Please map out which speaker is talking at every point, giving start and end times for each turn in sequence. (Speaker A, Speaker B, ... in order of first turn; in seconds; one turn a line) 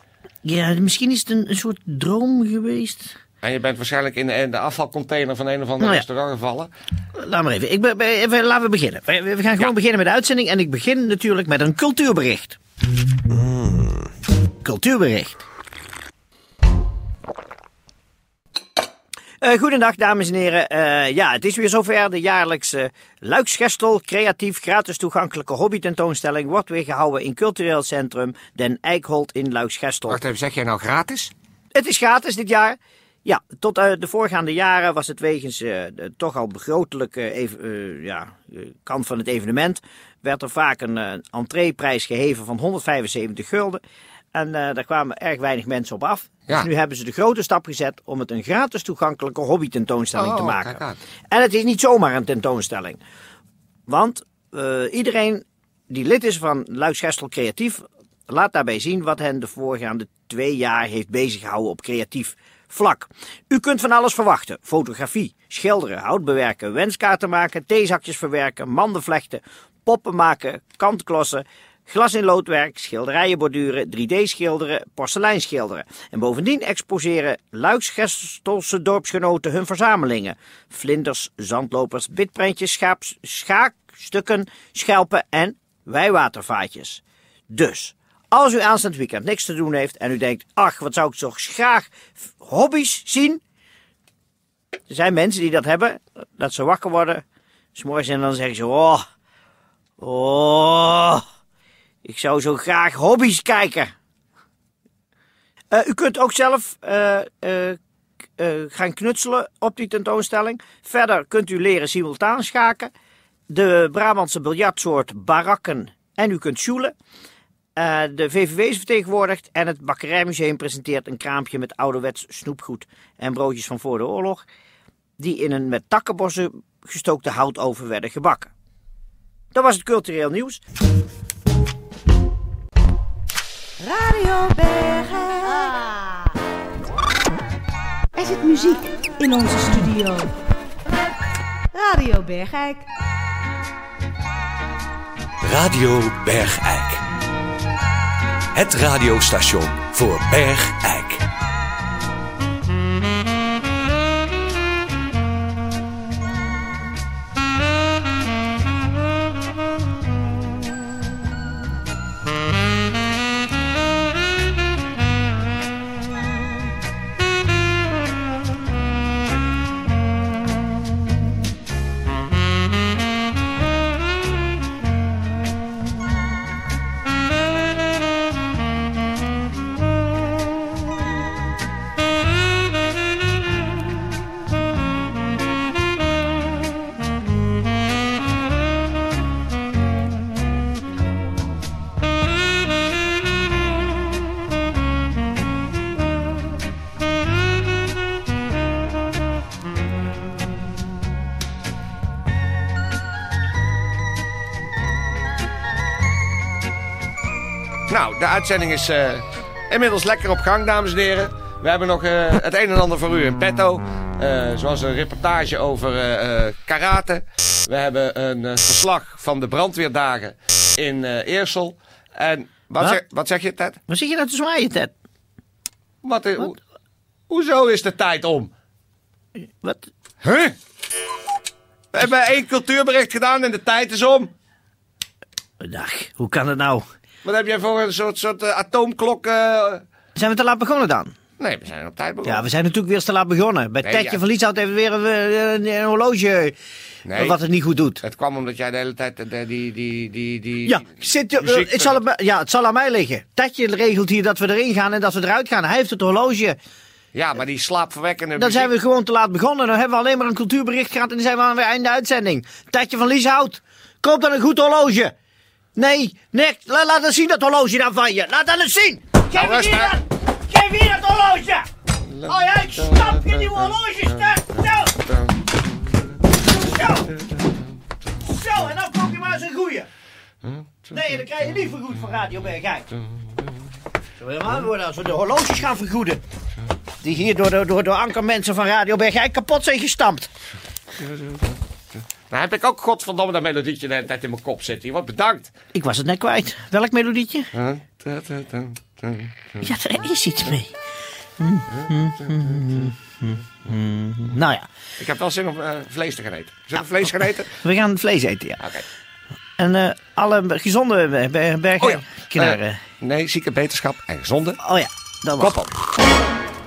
Speaker A: 0.4-3.1
Speaker B: 3.4-6.7
Speaker A: 7.2-12.6
Speaker A: 14.6-15.3
Speaker A: 19.4-30.2
Speaker B: 30.1-31.3
Speaker A: 31.7-43.8
Speaker A: 44.3-53.0
Speaker B: 50.1-51.0
Speaker A: 53.9-93.4
Speaker A: 94.9-97.2
Speaker A: 97.7-99.0
Speaker A: 100.0-101.2
Speaker A: 102.0-103.9
Speaker A: 105.7-107.8
Speaker A: 108.4-112.9
Speaker A: 113.5-116.9
Speaker A: 117.8-124.5
Speaker A: 125.2-128.5
Speaker A: 129.5-130.6
Speaker C: 133.9-135.9
Speaker C: 138.2-140.3
Speaker C: 141.8-142.8
Speaker D: 145.4-147.0
Speaker D: 148.5-151.2
Speaker B: 207.9-223.8
Speaker A: 223.9-224.9
Speaker B: 226.0-226.6
Speaker B: 227.3-228.5
Speaker B: 230.2-230.6
Speaker B: 231.9-234.3
Speaker A: 235.6-236.8
Speaker B: 237.2-239.8
Speaker A: 240.2-241.1
Speaker B: 241.4-242.5
Speaker A: 242.2-246.6
Speaker B: 243.8-244.2
Speaker B: 247.1-247.4
Speaker A: 247.1-248.0
Speaker B: 248.0-252.0
Speaker A: 250.6-256.6
Speaker B: 257.1-258.7
Speaker A: 258.4-265.1
Speaker A: 265.8-271.7
Speaker B: 269.3-270.0
Speaker B: 272.0-275.6
Speaker A: 272.2-274.9
Speaker A: 276.4-277.1
Speaker B: 276.7-277.5
Speaker A: 278.2-279.9
Speaker B: 280.4-280.7
Speaker A: 280.9-282.9
Speaker A: 284.2-286.2
Speaker A: 287.0-290.3
Speaker B: 292.3-295.5
Speaker A: 295.7-297.5
Speaker B: 297.5-299.7
Speaker A: 299.6-300.7
Speaker A: 301.4-304.7
Speaker B: 305.0-307.6
Speaker A: 307.6-308.6
Speaker A: 309.6-312.8
Speaker B: 311.8-314.6
Speaker A: 314.6-315.6
Speaker B: 315.4-315.7